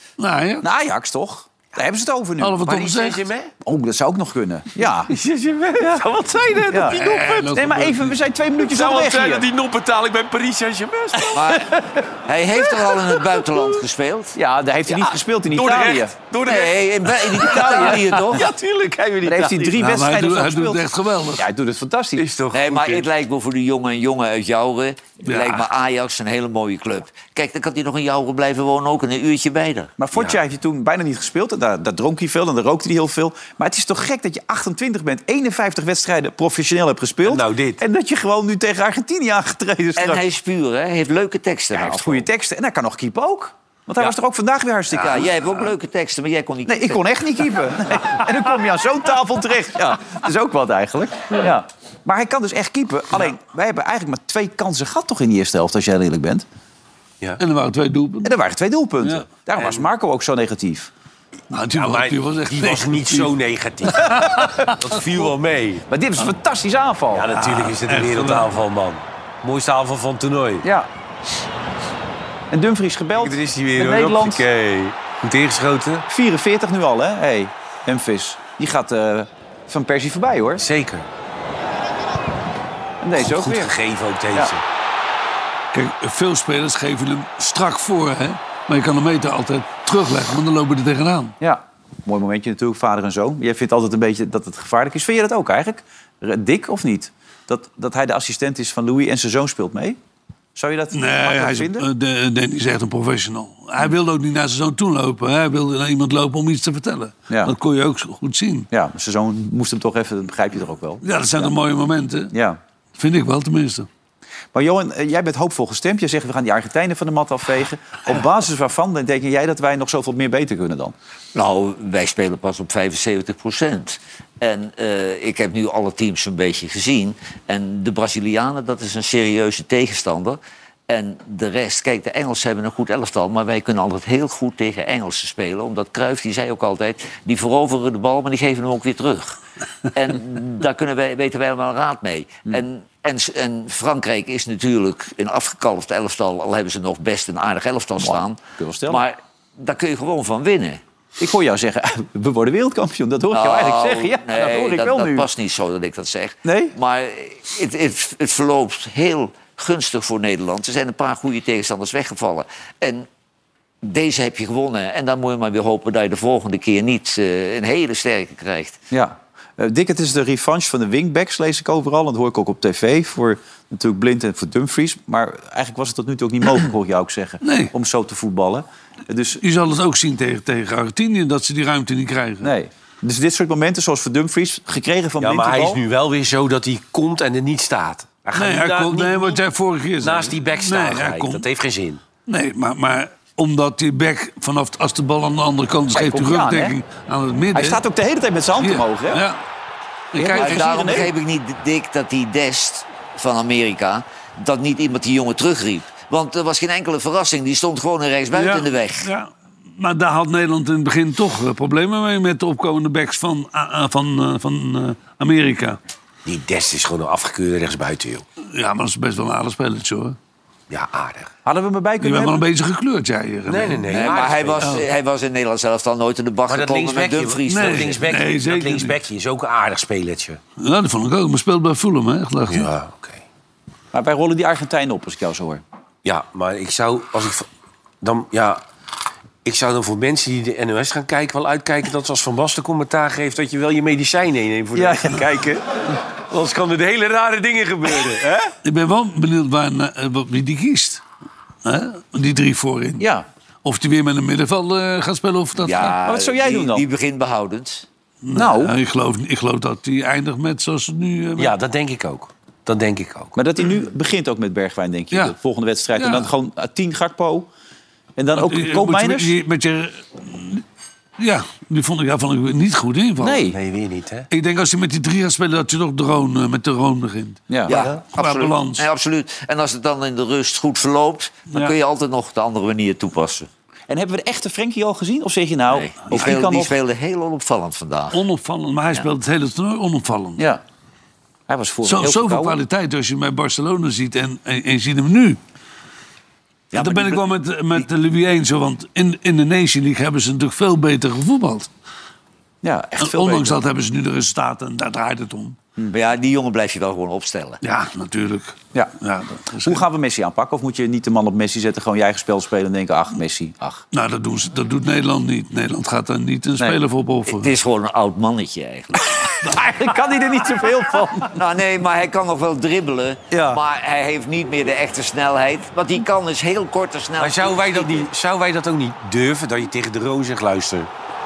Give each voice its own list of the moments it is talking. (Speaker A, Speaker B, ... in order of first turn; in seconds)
Speaker A: 0.2-0.6, 2.4-3.2, 6.9-8.1, 19.8-21.5, 25.3-25.6, 57.4-58.4, 61.5-63.3, 64.0-64.7, 67.3-68.5, 85.7-91.3, 100.9-108.7, 111.0-112.3, 113.0-113.9, 177.4-177.7, 179.4-182.5, 188.3-191.4, 192.3-197.8, 198.6-199.4, 200.1-200.9, 208.3-215.8, 218.5-220.2, 222.0-224.8, 227.5-228.9, 230.6-232.7, 248.6-251.0, 251.6-253.1, 253.6-256.0, 258.2-261.5, 265.9-266.3, 268.4-270.6, 271.2-273.4, 274.3-277.4, 278.1-278.8, 288.1-290.4, 291.8-295.4, 296.7-301.7, 303.0-305.6, 307.6-309.8, 313.9-317.5
Speaker B: 0.6-2.9, 3.6-5.1, 5.8-6.0, 6.7-9.4, 14.3-16.1, 19.2-22.2, 30.0-40.2, 41.7-45.3, 46.7-56.4, 58.2-60.9, 64.1-64.7, 65.9-67.3, 70.6-70.9, 72.5-74.4, 76.1-80.6, 83.0-83.7, 91.4-100.0, 100.5-101.8, 107.3-107.5, 108.7-111.5, 112.3-112.6, 114.5-120.9, 148.0-149.0, 151.2-155.3, 156.4-156.7, 168.9-179.4, 182.4-185.8, 195.9-196.8, 197.5-199.2, 200.2-201.1, 221.4-222.4, 233.9-235.6, 244.7-245.6, 248.2-248.5, 253.0-253.2, 256.0-256.8, 258.3-258.7, 263.3-267.5, 268.2-269.3, 273.2-273.6, 277.5-277.7, 283.9-286.7, 291.5-292.6, 302.6-303.6, 309.6-313.8, 319.4-321.3, 323.3-323.6
Speaker C: 2.7-3.5, 4.8-7.5, 8.6-11.8, 12.7-13.3, 15.5-19.8, 22.1-23.0, 30.1-30.4, 37.2-37.8, 59.6-59.8, 61.7-64.1, 64.8-65.8, 67.1-70.6, 73.2-76.0, 80.6-81.1, 83.2-84.6, 185.2-189.4, 190.0-192.0, 216.2-218.2, 220.7-221.3, 223.5-224.8, 226.5-230.4, 232.5-233.2, 236.0-237.5, 238.0-238.6, 239.4-245.4, 246.3-248.3, 261.4-263.4, 273.5-274.3, 277.7-278.0, 327.2-330.9
Speaker D: 11.3-15.1, 16.4-18.5, 22.5-29.9, 40.0-42.3, 44.9-47.0, 121.3-139.4, 139.9-150.8, 153.3-163.1, 163.8-168.8, 200.2-209.1, 223.9-228.0, 255.6-257.9, 277.7-283.5, 285.7-288.2, 296.7-297.9, 305.9-307.6, 317.3-318.9, 321.3-328.1